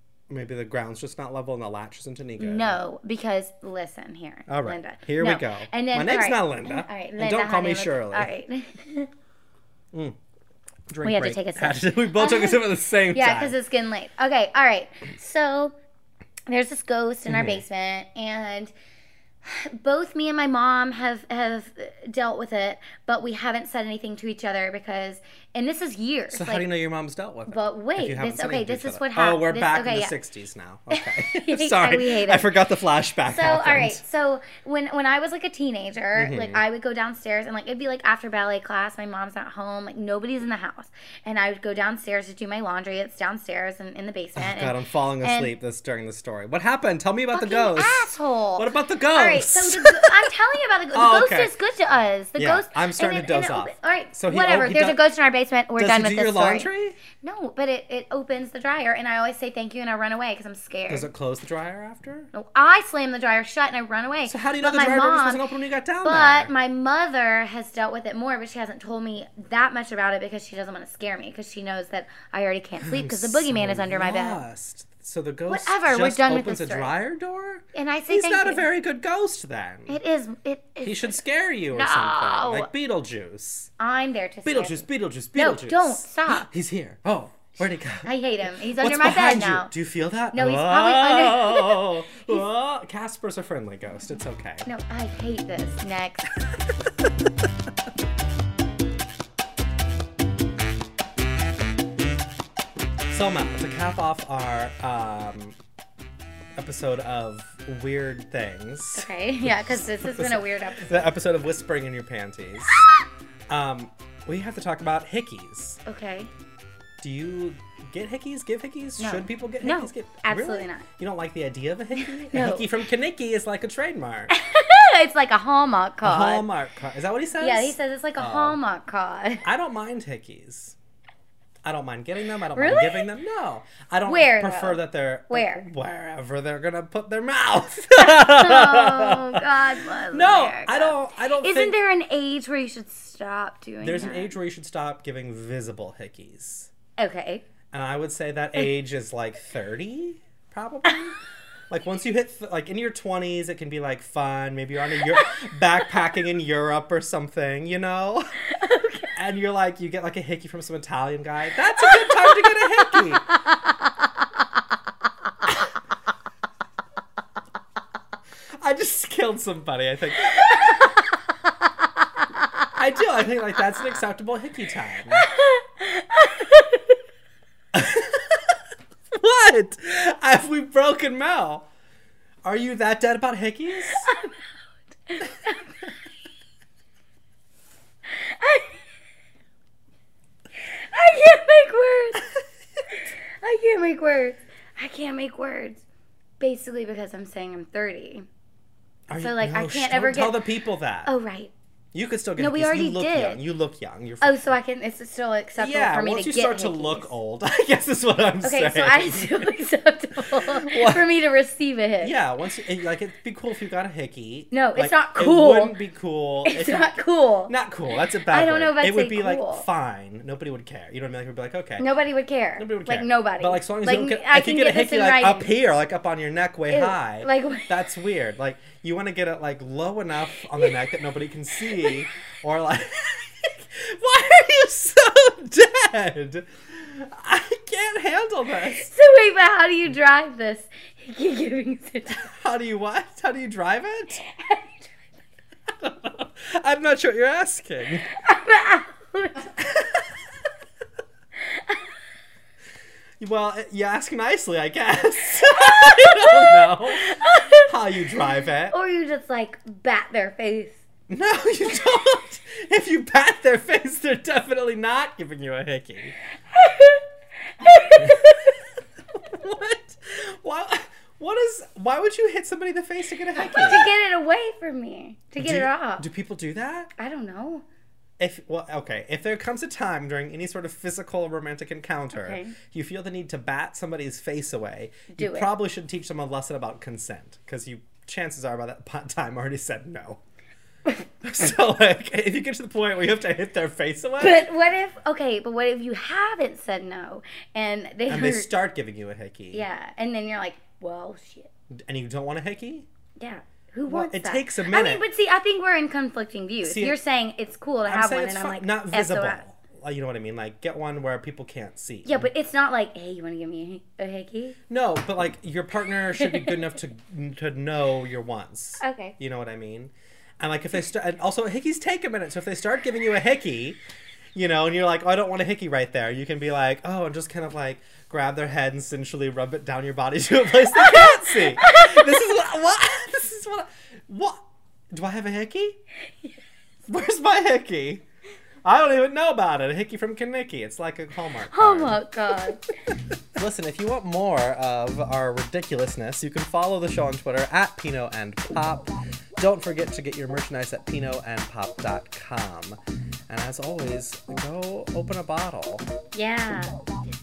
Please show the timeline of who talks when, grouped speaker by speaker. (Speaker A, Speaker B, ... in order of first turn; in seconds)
Speaker A: 0.3-2.8, 4.5-8.3, 10.9-13.6, 17.3-17.6, 26.3-34.0, 36.1-36.6, 44.4-50.3, 50.9-51.5, 52.4-55.0, 55.8-57.0, 60.9-62.3, 64.2-66.5, 72.8-80.0, 80.8-83.7, 84.4-88.1, 88.8-94.7, 103.1-105.5, 106.5-112.8, 113.5-115.8, 117.0-124.3, 126.0-128.6, 129.4-130.8, 131.6-139.4, 140.1-141.8, 143.8-146.7, 147.7-151.2, 151.7-158.4, 159.1-163.3, 168.6-171.0, 172.7-175.3, 177.7-178.6, 179.1-181.7, 182.4-184.1, 199.1-201.1, 201.9-204.5, 205.6-209.5, 210.2-211.1, 212.0-216.9, 217.5-221.9, 222.6-238.9, 242.2-244.2, 245.8-248.1, 249.6-250.1, 253.2-258.7, 261.1-266.1, 267.9-268.3, 269.1-273.9, 275.4-276.9, 278.2-290.2, 291.2-294.5, 298.1-299.6, 301.8-302.9, 303.9-305.0, 306.6-307.0, 307.9-312.3, 314.7-323.8, 324.3-335.8, 336.9-338.0, 338.6-342.6, 343.3-352.8, 353.3-355.9
Speaker B: 2.4-9.1, 11.0-15.7, 16.5-18.7, 19.4-26.7, 27.5-30.1, 30.9-32.5, 33.2-45.5, 47.3-61.1, 62.3-65.4, 66.0-74.4, 75.5-76.9, 77.7-78.7, 79.9-81.2, 81.7-82.7, 83.8-86.5, 88.0-89.7, 90.3-92.4, 94.7-96.4, 109.0-111.1, 115.8-116.3, 119.0-120.8, 122.0-122.7, 124.3-126.5, 127.4-129.4, 132.5-133.1, 134.1-135.7, 138.0-144.3, 147.0-147.4, 158.5-159.1, 161.8-163.7, 175.2-176.8, 184.0-184.3, 185.1-185.7, 188.1-188.8, 190.6-192.3, 192.9-195.8, 196.4-198.3, 199.2-200.4, 201.0-201.5, 202.4-203.4, 204.2-207.1, 208.4-212.2, 214.5-215.8, 216.4-217.5, 218.3-219.7, 221.8-225.5, 226.7-227.7, 238.8-242.3, 244.2-244.9, 248.1-249.5, 251.4-251.8, 255.6-257.7, 258.7-260.8, 266.5-267.1, 267.6-268.5, 273.4-276.1, 277.0-277.6, 282.1-282.5, 285.1-285.5, 294.2-298.5, 299.5-301.5, 303.2-309.4, 312.0-314.6, 318.8-319.1, 330.8-332.1, 341.5-342.6, 356.1-356.8